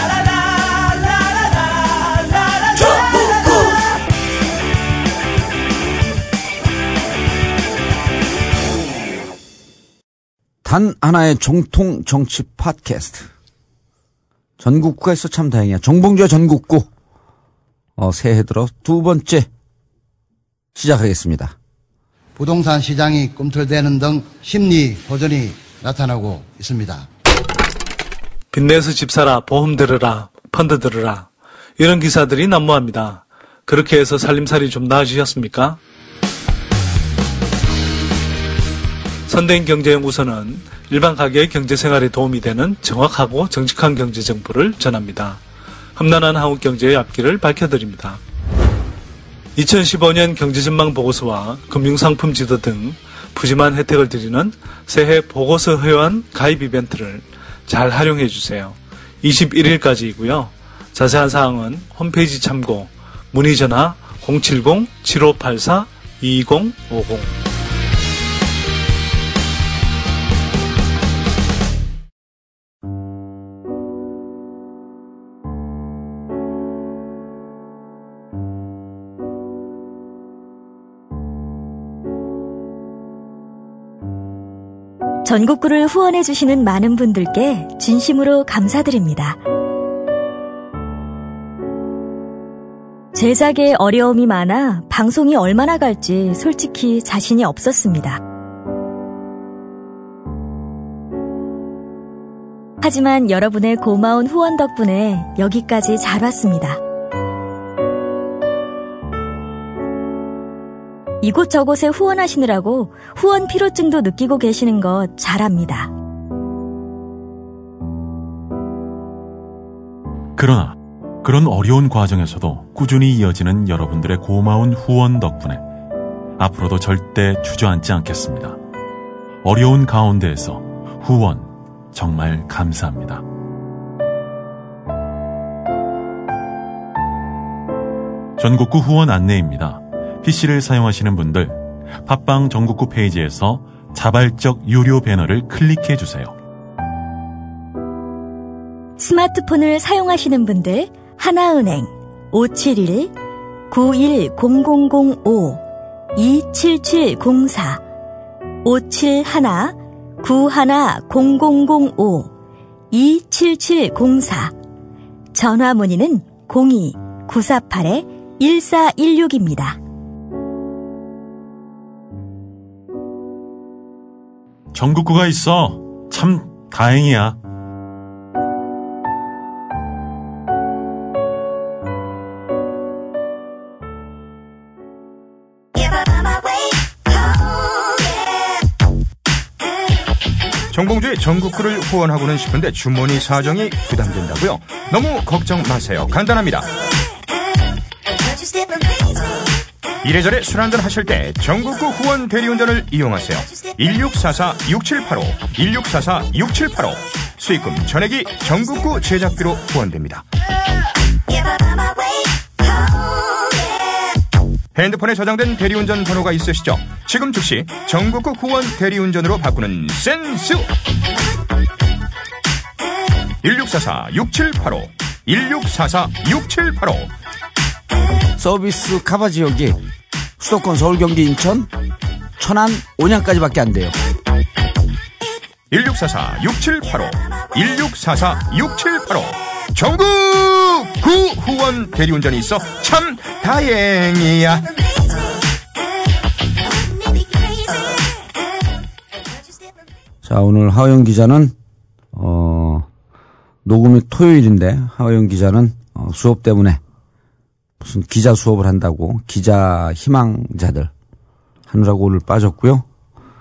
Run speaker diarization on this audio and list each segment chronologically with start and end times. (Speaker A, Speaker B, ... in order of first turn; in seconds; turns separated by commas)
Speaker A: 10.6-13.3, Speaker A: 14.6-16.9, Speaker A: 18.0-19.5, Speaker A: 20.8-21.6, Speaker B: 22.4-27.1, Speaker C: 28.5-35.8, Speaker C: 39.3-45.4, Speaker C: 46.0-48.2, Speaker C: 49.6-67.3, Speaker D: 85.2-89.4, Speaker D: 93.1-98.2, Speaker D: 102.8-106.8, Speaker D: 111.2-115.9, Speaker E: 120.4-125.6, Speaker E: 126.4-128.6, Speaker E: 129.4-133.2, Speaker E: 138.4-146.3, Speaker D: 149.0-153.1, Speaker D: 153.7-155.6, Speaker D: 156.2-157.8, Speaker D: 158.6-162.3, Speaker D: 162.9-164.5, Speaker D: 165.3-169.8, Speaker E: 174.7-177.4, Speaker F: 190.7-196.7, Speaker F: 200.0-210.2, Speaker F: 214.8-220.7, Speaker F: 223.4-227.1, Speaker A: 228.4-229.8, Speaker A: 230.4-231.7, Speaker A: 232.4-234.0, Speaker F: 235.7-244.8, Speaker A: 250.2-251.5, Speaker A: 252.1-252.9, Speaker A: 253.6-256.8, Speaker A: 257.8-260.9, Speaker A: 261.7-262.9